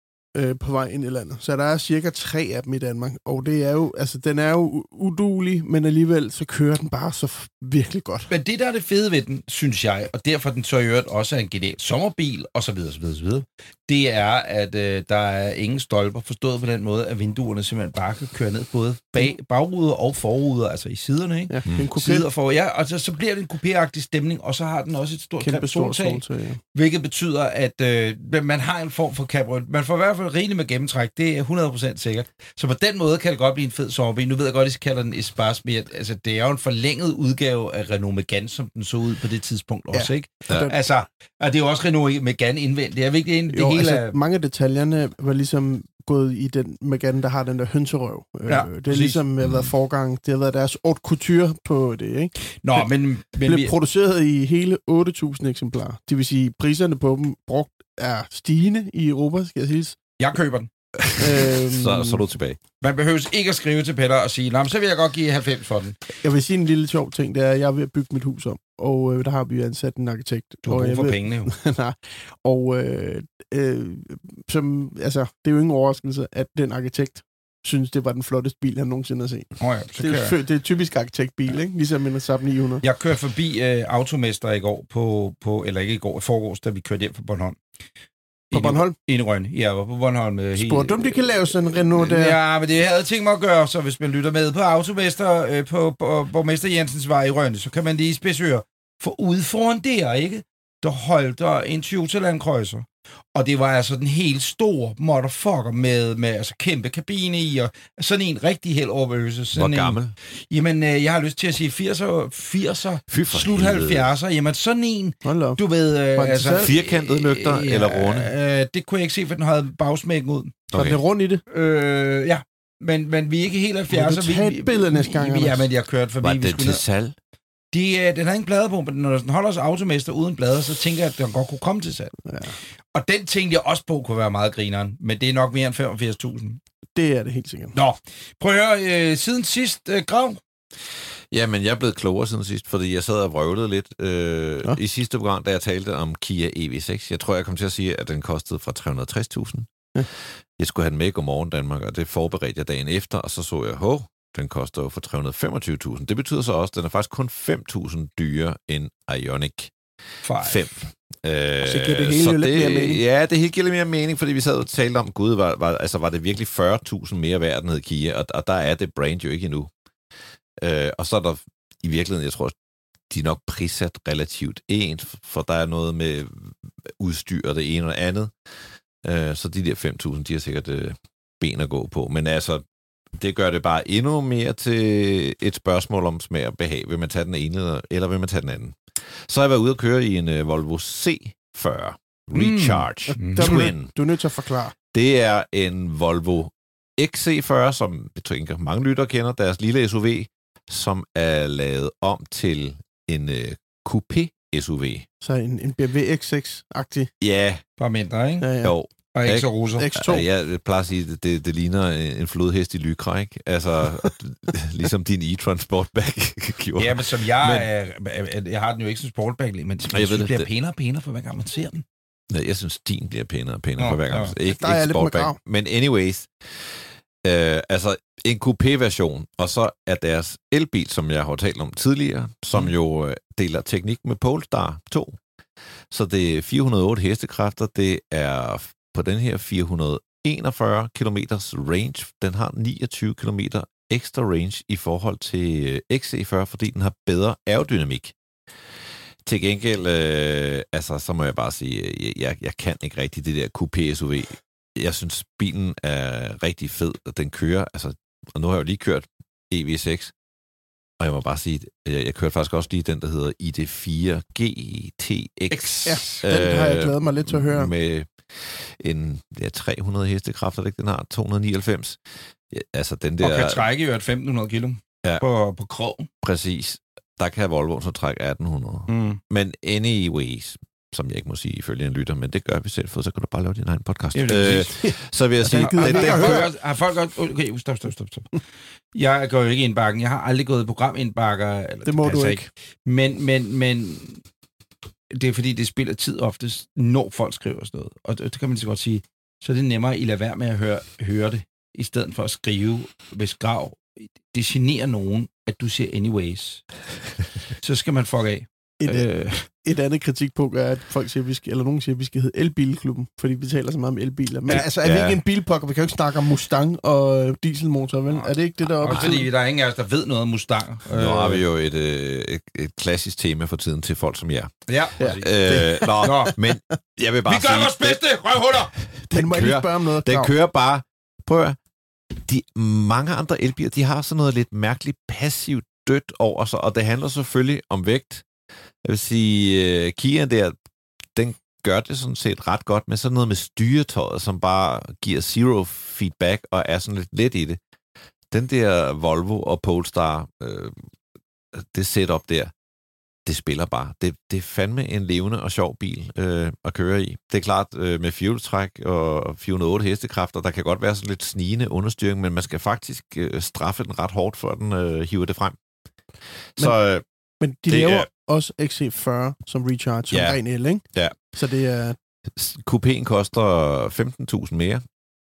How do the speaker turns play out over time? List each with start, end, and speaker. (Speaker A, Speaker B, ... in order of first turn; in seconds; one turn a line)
Speaker A: 0.3-8.3
Speaker B: 8.3-26.2
Speaker A: 21.5-22.2
Speaker A: 25.4-26.6
Speaker B: 26.7-44.1
Speaker A: 39.9-40.7
Speaker A: 43.5-52.8
Speaker B: 48.5-49.2
Speaker C: 49.4-49.7
Speaker B: 52.6-53.7
Speaker A: 53.4-60.0
Speaker B: 60.2-60.7
Speaker C: 61.0-62.6
Speaker A: 61.1-62.2
Speaker B: 62.8-66.0
Speaker A: 66.2-82.8
Speaker B: 70.6-71.5
Speaker B: 79.6-80.3
Speaker B: 82.8-87.6
Speaker B: 88.5-120.6
Speaker A: 88.5-88.9
Speaker A: 90.6-92.4
Speaker C: 109.5-110.1
Speaker C: 113.1-114.1
Speaker A: 115.2-115.6
Speaker A: 116.1-116.7
Speaker C: 116.6-118.3
Speaker C: 120.7-121.0
Speaker A: 120.7-121.4
Speaker B: 121.5-126.8
Speaker A: 123.9-125.7
Speaker C: 126.2-127.2
Speaker B: 127.7-132.1
Speaker A: 132.2-132.5
Speaker B: 132.9-136.6
Speaker A: 136.9-137.7
Speaker B: 137.7-140.4
Speaker C: 141.3-149.7
Speaker C: 150.6-159.7
Speaker B: 160.2-160.7
Speaker C: 160.4-169.7
Speaker A: 161.6-163.0
Speaker C: 170.6-172.5
Speaker C: 173.1-178.3
Speaker C: 179.0-193.9
Speaker B: 192.3-193.6
Speaker A: 193.1-194.8
Speaker C: 194.9-205.1
Speaker A: 205.2-207.1
Speaker C: 207.2-207.6
Speaker B: 207.8-208.5
Speaker A: 208.4-208.7
Speaker C: 208.6-217.7
Speaker B: 209.1-209.9
Speaker A: 209.8-210.2
Speaker B: 216.8-221.8
Speaker C: 219.9-220.5
Speaker C: 222.3-235.2
Speaker B: 223.8-224.3
Speaker A: 224.4-225.4
Speaker C: 235.9-248.2
Speaker C: 249.2-260.1
Speaker C: 261.0-272.0
Speaker B: 265.5-266.2
Speaker A: 265.8-267.7
Speaker C: 272.5-273.6
Speaker B: 273.2-276.1
Speaker C: 276.2-286.5
Speaker B: 278.9-279.2
Speaker B: 284.1-284.7
Speaker A: 284.7-286.5
Speaker B: 285.6-288.3
Speaker B: 288.9-294.2
Speaker A: 291.9-292.5
Speaker B: 295.1-306.6
Speaker B: 307.6-309.4
Speaker A: 308.8-319.3
Speaker C: 314.5-315.2
Speaker B: 318.1-321.4
Speaker C: 318.9-319.2
Speaker C: 320.9-324.6
Speaker B: 324.7-326.3
Speaker A: 325.0-326.5
Speaker C: 325.2-328.0
Speaker B: 327.2-328.7
Speaker C: 328.7-331.6
Speaker A: 329.1-330.3
Speaker C: 332.2-338.2
Speaker C: 338.8-340.5
Speaker C: 341.1-347.6
Speaker C: 348.3-350.8
Speaker C: 351.5-352.5
Speaker C: 353.2-365.6
Speaker C: 366.6-367.0
Speaker A: 367.4-371.9
Speaker C: 367.7-368.1
Speaker C: 370.1-370.4
Speaker C: 372.4-374.8